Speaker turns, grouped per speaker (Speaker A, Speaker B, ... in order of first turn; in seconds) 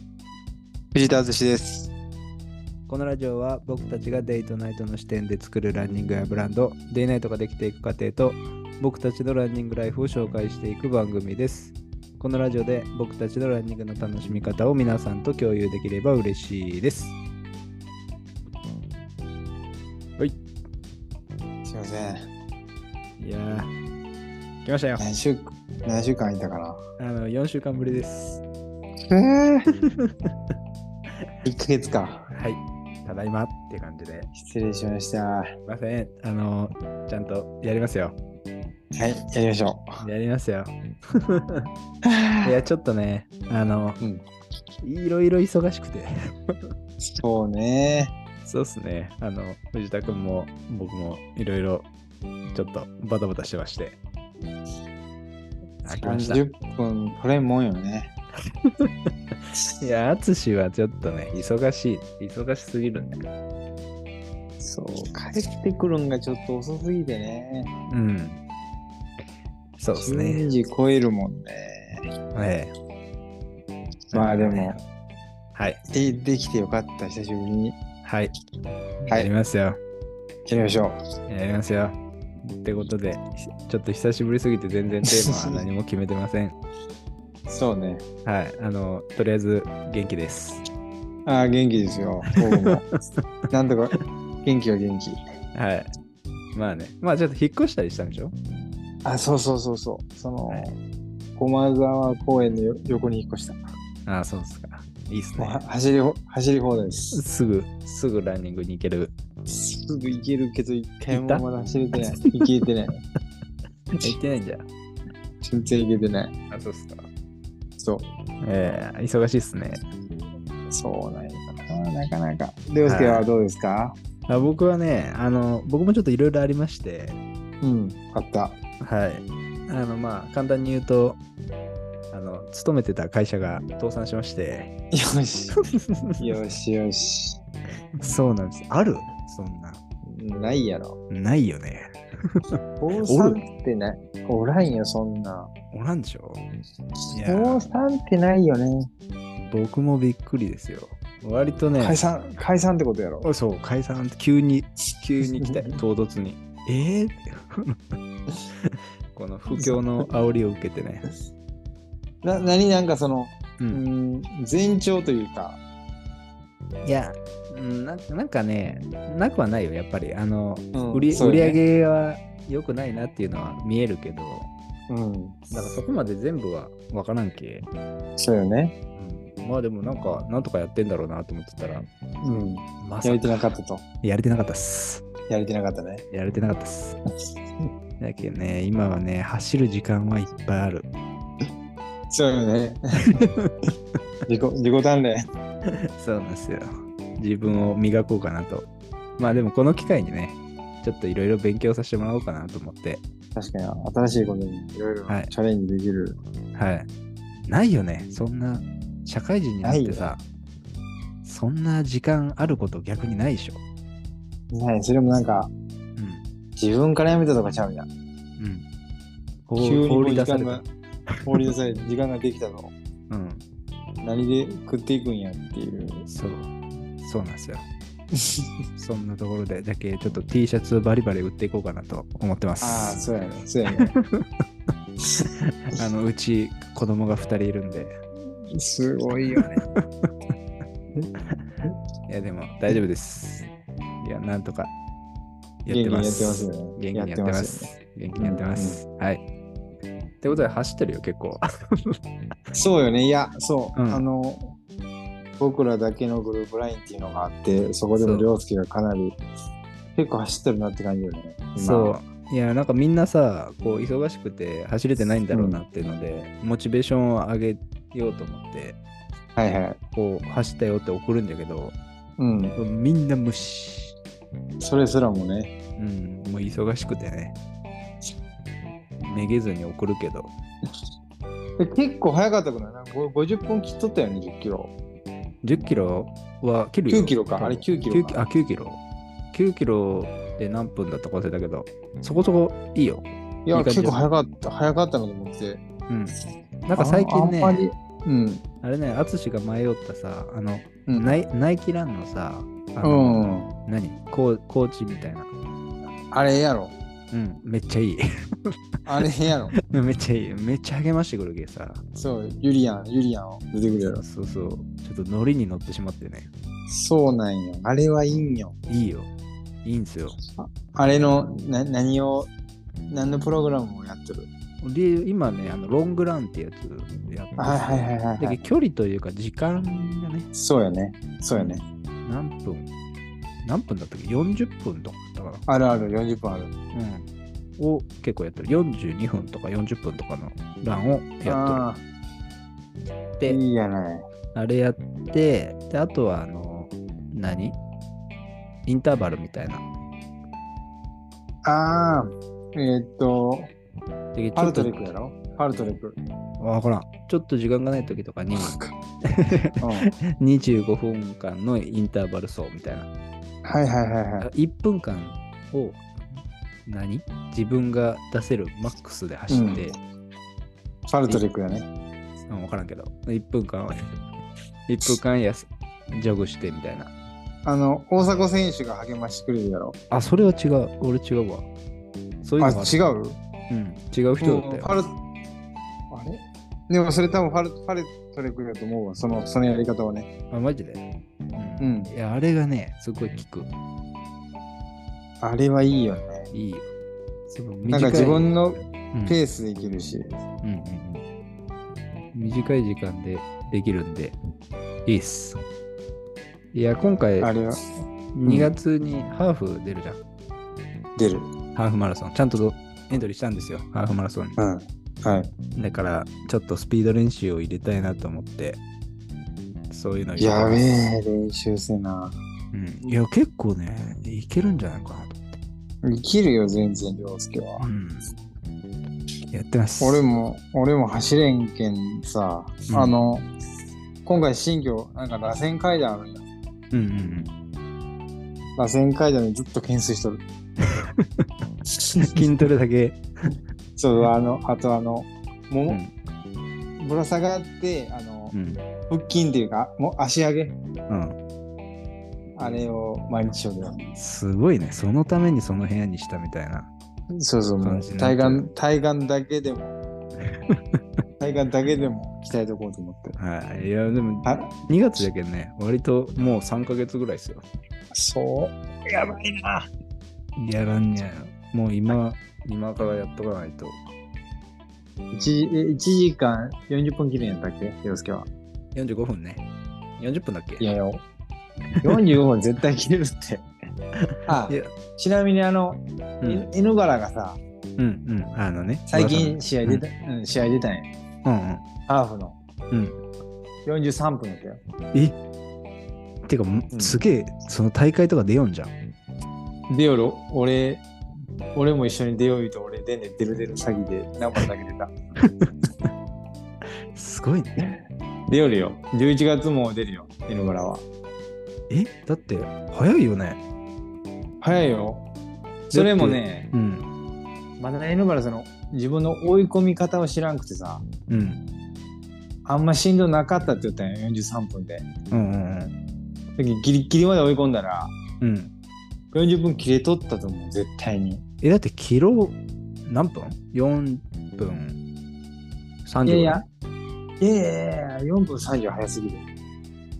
Speaker A: 0.9-1.9, 21.6-22.3, 25.0-26.8, 29.1-29.7, 31.4-32.3, 34.3-35.5, 38.9-40.0, 42.0-42.5, 47.1-48.1, 56.0-58.1, 64.6-67.7, 70.0-72.1, 74.1-74.8, 75.9-77.8, 80.5-81.0, 85.0-85.6, 87.5-88.0, 91.2-92.8, 93.5-95.2, 99.0-100.8, 101.3-103.6, 105.4-107.2, 109.5-113.0, 115.4-116.3, 117.8-118.1, 120.7-123.9, 127.6-128.6, 134.9-135.6, 136.2-137.4, 140.0-140.9, 142.8-145.5, 147.2-148.9, 151.8-153.3, 155.3-155.7, 159.5-159.8, 162.2-165.6, 170.7-171.6, 174.9-175.7, 178.2-178.7, 182.2-183.8, 185.3-186.0, 192.1-193.1, 194.3-195.3, 203.3-206.2, 209.6-210.1, 214.5-215.5, 216.6-217.9, 219.6-220.7, 221.2-222.7, 224.0-226.1, 228.2-228.5, 232.6-233.9, 238.5-239.6, 245.7-248.8, 252.5-254.6, 255.4-259.2, 259.9-262.0, 265.3-265.6, 269.4-269.8, 272.2-272.6, 274.6-275.5, 281.6-284.7, 286.9-288.2, 293.4-295.6, 296.8-298.4, 300.9-301.1, 302.8-303.5, 306.1-306.8, 308.9-309.6, 311.9-314.0, 316.7-318.5, 320.4-322.3, 322.9-324.3, 327.4-328.4, 330.3-331.6, 335.5-336.5, 341.2-341.8, 343.2-344.1, 351.4-353.5, 354.4-355.9, 358.4-358.7, 359.6-359.9, 363.4-364.3, 369.3-369.7, 370.9-371.7, 377.4-379.8, 382.4-383.2, 384.2-384.9, 385.9-390.1, 391.6-391.9, 395.2-396.3, 397.7-400.2, 407.2-408.5, 410.9-411.3, 414.4-415.3, 420.2-422.1, 425.8-427.7, 429.8-433.3, 434.0-436.3, 438.6-440.2, 441.7-442.2, 443.8-445.8, 446.8-448.4, 448.9-450.6, 452.4-453.8, 457.1-459.8, 461.2-463.2, 464.2-464.5, 467.9-469.7, 475.1-478.3, 480.6-481.0, 481.8-483.5, 484.2-487.4, 488.9-490.9, 491.9-492.4, 493.6-494.6, 496.7-497.0, 499.7-500.8, 501.5-504.9, 508.3-510.8, 514.4-515.1, 515.7-516.5, 517.6-520.8, 522.4-524.9, 526.4-527.9, 529.1-531.2, 536.0-536.4, 537.2-539.2
Speaker B: 2.9-17.1, 23.2-23.7, 24.6-25.0, 27.0-28.4, 29.8-30.1, 32.3-34.3, 35.6-38.1, 40.0-41.7, 42.4-44.0, 44.8-46.7, 48.5-51.9, 52.5-54.0, 55.8-56.4, 58.6-63.2, 67.9-68.4, 69.8-70.5, 72.3-72.7, 74.1-74.8, 75.5-75.8, 78.0-78.3, 79.0-79.8, 81.3-86.5, 88.2-90.6, 92.4-93.2, 95.5-95.9, 96.5-98.3, 104.0-105.6, 107.1-109.1, 111.1-111.4, 112.0-112.3, 113.9-114.6, 116.5-117.1, 118.4-119.8, 122.8-123.3, 124.3-127.2, 128.8-131.2, 132.1-134.7, 135.7-136.2, 138.0-139.8, 141.1-142.4, 143.0-143.4, 145.7-146.4, 147.1-147.7, 149.4-152.0, 153.2-157.9, 158.6-161.0, 166.8-174.5, 175.5-177.7, 179.0-181.8, 182.8-183.4, 184.0-185.1, 186.1-187.0, 188.0-190.9, 193.2-193.5, 195.7-198.7, 199.2-203.0, 206.5-206.9, 207.4-210.2, 211.2-213.6, 215.9-216.2, 218.4-218.6, 219.5-220.6, 223.1-223.4, 226.1-227.7, 228.8-233.0, 233.8-234.3, 235.4-237.9, 239.8-240.1, 242.1-243.5, 244.0-244.7, 245.6-249.2, 250.2-252.0, 253.8-254.0, 258.0-258.3, 261.6-268.8, 269.9-271.7, 272.6-273.9, 275.8-277.4, 279.1-280.3, 285.4-288.8, 289.3-294.0, 295.9-296.1, 296.7-297.6, 298.6-305.3, 307.1-308.5, 309.5-311.8, 313.8-316.3, 318.7-319.1, 319.6-320.2, 324.6-330.3, 331.4-332.7, 333.4-335.4, 336.7-341.6, 344.3-347.6, 348.6-349.6, 354.1-354.9, 356.4-362.9, 364.2-369.8, 372.3-374.0, 374.7-376.9, 379.9-381.5, 382.2-382.8, 383.5-384.7, 390.3-390.8, 391.4-393.5, 396.3-396.7, 397.3-398.3, 398.9-399.2, 400.4-401.0, 402.1-404.2, 404.9-405.4, 406.5-407.3, 408.1-410.0, 411.5-414.4, 415.6-418.6, 419.7-420.6, 422.5-425.3, 427.6-428.1, 429.3-430.0, 432.7-432.9, 436.7-437.3, 440.8-441.2, 442.0-443.0, 448.3-448.6, 450.9-451.1, 453.9-456.7, 457.6-458.5, 460.3-460.8, 463.2-467.4, 470.4-473.8, 478.7-479.4, 480.0-480.7, 484.0-484.7, 487.8-489.8, 491.2-491.6, 492.7-493.0, 496.2-498.7, 505.2-505.5, 506.9-507.6, 511.7-513.4, 515.7-516.9, 521.1-521.4, 525.1-525.7, 528.2-528.5, 531.4-534.8, 535.9-536.4